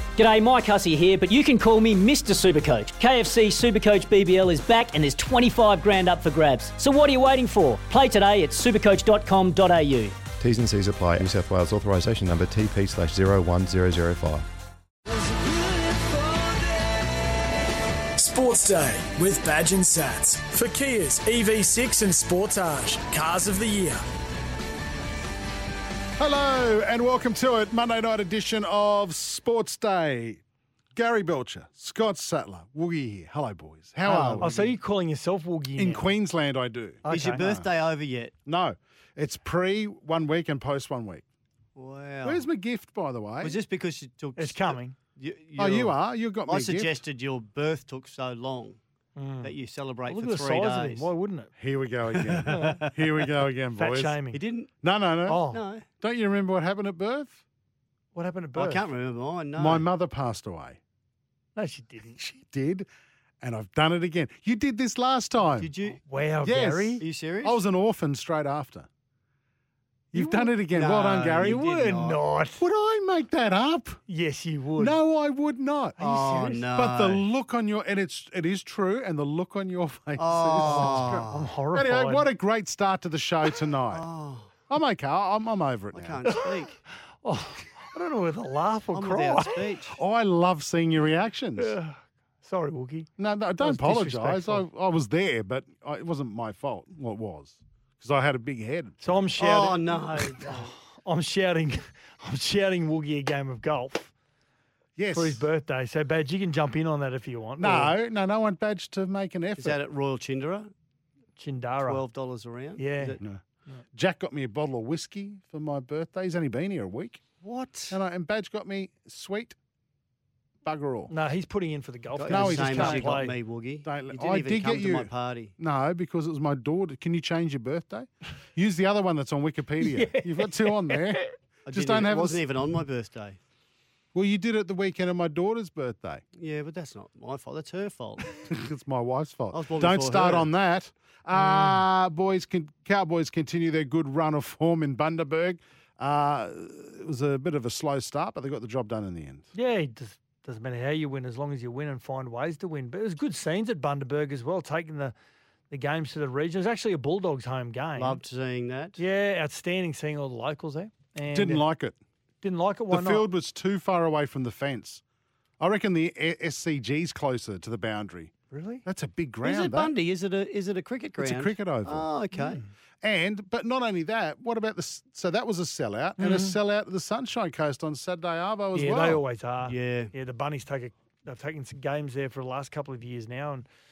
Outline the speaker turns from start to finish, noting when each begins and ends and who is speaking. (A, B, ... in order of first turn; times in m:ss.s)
0:00.2-0:10.2 A
0:10.4-0:14.5 B
0:18.2-0:24.0 C
0:26.2-0:30.4 D
0:31.0-0:34.6 D
0:34.1-0:34.8 E
0:34.4-0:36.1 F
0:35.8-0:37.7 D
0:37.0-0:37.4 F
0:37.1-0:38.3 E
0:38.5-0:41.2 D
0:41.8-0:42.4 E
0:42.2-0:43.6 D
0:43.4-0:48.8 E
0:44.4-0:45.0 F
0:45.6-0:47.0 D
0:49.2-0:49.5 F
0:49.4-0:51.1 E
0:50.1-0:51.5 F
0:51.6-0:54.2 D
0:52.3-0:53.1 E
0:52.5-0:52.8 F
0:53.8-0:54.4 F
0:54.3-0:54.7 E
0:54.8-0:55.5 D
0:55.3-0:55.6 F
0:55.5-0:55.9 E
0:56.0-0:57.4 D
0:58.1-0:58.8 F
0:58.6-0:59.8 E
0:59.6-1:00.8 D
1:01.6-1:02.2 F
1:02.2-1:02.9 D
1:03.4-1:05.7 D
1:05.6-1:06.0 E
1:06.0-1:07.0 F
1:06.4-1:08.9 D
1:07.0-1:07.6 E
1:10.1-1:11.6 D
1:10.2-1:10.5 F
1:10.7-1:12.2 E
1:11.4-1:12.6 F
1:12.6-1:14.0 D
1:14.1-1:15.0 F
1:14.8-1:24.0 D
1:16.0-1:17.2 E
1:20.2-1:21.5 E
1:20.6-1:22.3 F
1:23.9-1:24.5 E
1:24.7-1:26.2 D
1:25.9-1:26.8 E
1:27.2-1:29.6 F
1:28.9-1:30.0 E
1:29.9-1:31.8 D
1:31.6-1:34.6 F
1:33.2-1:39.2 D
1:39.0-1:44.1 F
1:39.4-1:40.7 E
1:45.0-1:45.4 D
1:45.1-1:47.9 F
1:47.6-1:49.8 D
1:49.6-1:50.7 E
1:51.4-1:52.0 F
1:51.8-1:53.2 E
1:52.8-1:53.2 F
1:53.9-1:57.2 D
1:57.4-1:58.0 E
1:57.9-1:59.6 D
2:00.6-2:01.1 D
2:01.1-2:03.4 F
2:02.2-2:05.5 E
2:02.3-2:03.2 D
2:03.8-2:12.4 D
2:09.8-2:11.3 F
2:11.7-2:13.4 E
2:14.1-2:16.2 D
2:16.4-2:18.4 E
2:18.4-2:29.5 D
2:19.5-2:20.5 E
2:21.4-2:21.8 F
2:29.5-2:35.2 F
2:35.7-2:38.2 F
2:38.0-2:39.0 E
2:39.0-2:41.6 F
2:41.3-2:42.0 D
2:42.4-2:43.3 F
2:42.9-2:45.0 D
2:45.6-2:48.3 D
2:48.5-2:48.8 F
2:48.8-2:49.9 D
2:49.4-2:52.6 E
2:51.2-2:52.1 D
2:52.4-2:52.7 F
2:53.0-2:59.2 D
2:56.2-2:56.6 F
2:58.7-3:03.7 F
2:59.7-3:00.1 E